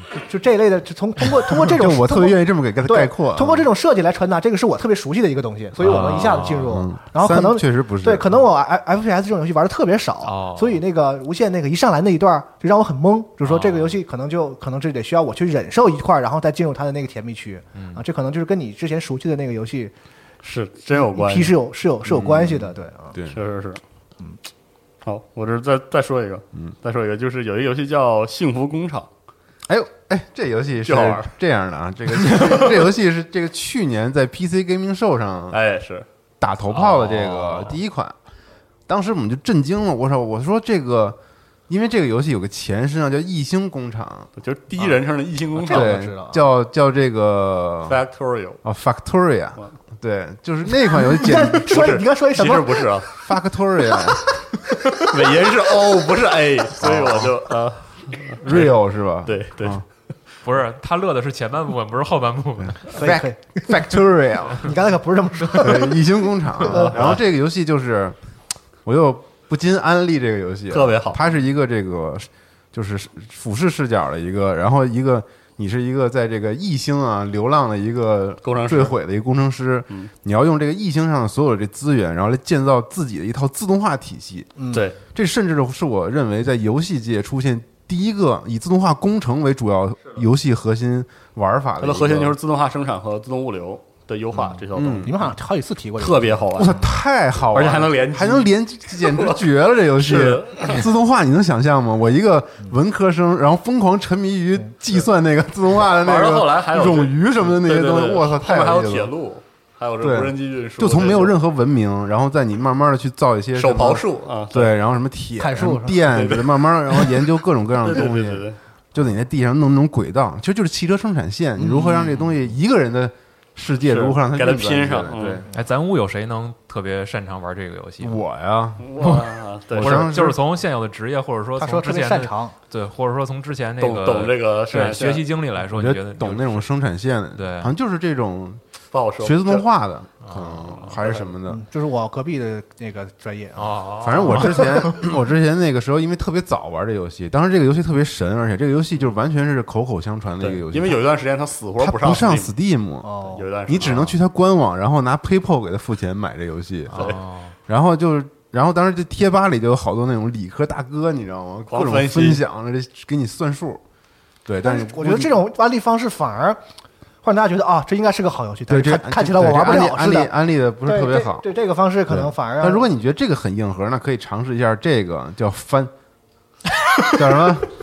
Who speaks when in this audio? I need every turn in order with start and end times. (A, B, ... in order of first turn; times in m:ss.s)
0:00.1-0:19.9 A
0:01.5-0:03.7 B
0:05.8-0:06.8 C
0:05.8-0:08.4 B
0:10.2-0:10.8 C
0:13.4-0:14.0 C
0:17.8-0:18.0 C
0:20.4-0:21.6 D
0:20.9-0:23.2 A
0:22.1-0:23.4 B
0:23.3-0:23.8 D
0:25.0-0:29.1 D
0:29.7-0:35.6 B
0:30.8-0:31.3 D
0:35.5-0:36.1 D
0:36.4-0:38.2 B
0:36.7-0:37.8 C
0:38.9-0:41.2 B
0:41.7-0:44.3 B
0:44.4-0:46.0 D
0:45.6-0:46.4 A
0:45.7-0:48.0 B
0:47.9-0:48.6 D
0:48.6-0:51.9 B
0:51.0-0:53.0 A
0:51.6-0:53.1 D
0:53.2-0:54.3 B
0:55.0-0:59.8 D
0:56.8-0:57.3 B
0:58.4-0:59.8 B
1:00.4-1:02.9 C
1:02.6-1:04.7 B
1:02.9-1:03.9 A
1:04.6-1:07.1 A
1:05.5-1:08.2 B
1:06.6-1:07.2 D
1:08.8-1:24.5 B
1:10.7-1:11.2 D
1:18.4-1:19.0 D
1:24.6-1:24.9 A
1:24.7-1:25.0 D
1:25.1-1:32.4 B
1:31.8-1:35.3 D
1:34.4-1:36.8 A
1:34.7-1:35.2 B
1:36.0-1:36.9 D
1:36.5-1:49.1 B
1:37.5-1:40.9 D
1:45.9-1:51.4 D
1:50.0-2:05.5 B
1:53.6-1:54.8 D
1:55.4-1:56.1 A
1:56.1-1:57.3 D
1:57.8-1:58.6 D
2:01.6-2:02.2 A
2:03.8-2:05.5 D
2:05.5-2:08.2 C
2:08.0-2:09.0 B
2:08.8-2:10.1 D
2:09.0-2:09.3 C
2:09.7-2:10.4 B
2:09.8-2:16.6 C
2:11.6-2:12.6 A
2:13.8-2:15.3 D
2:15.6-2:18.6 B
2:17.4-2:17.7 C
2:18.9-2:19.7 D
2:19.2-2:21.6 B
2:20.2-2:20.9 C
2:20.8-2:21.3 D
2:21.5-2:23.8 A
2:23.6-2:25.0 C
2:24.0-2:31.0 B
2:24.3-2:24.6 A
2:30.4-2:32.5 D
2:31.8-2:43.8 B
2:33.0-2:33.4 A
2:33.3-2:34.2 D
2:36.9-2:37.5 C
2:37.0-2:37.2 D
2:41.7-2:42.4 D
2:44.5-2:45.4 B
2:44.6-2:46.6 A
2:47.2-2:50.3 A
2:48.7-2:51.5 B
2:50.8-2:52.9 A
2:52.1-2:55.9 B
2:57.1-2:57.7 B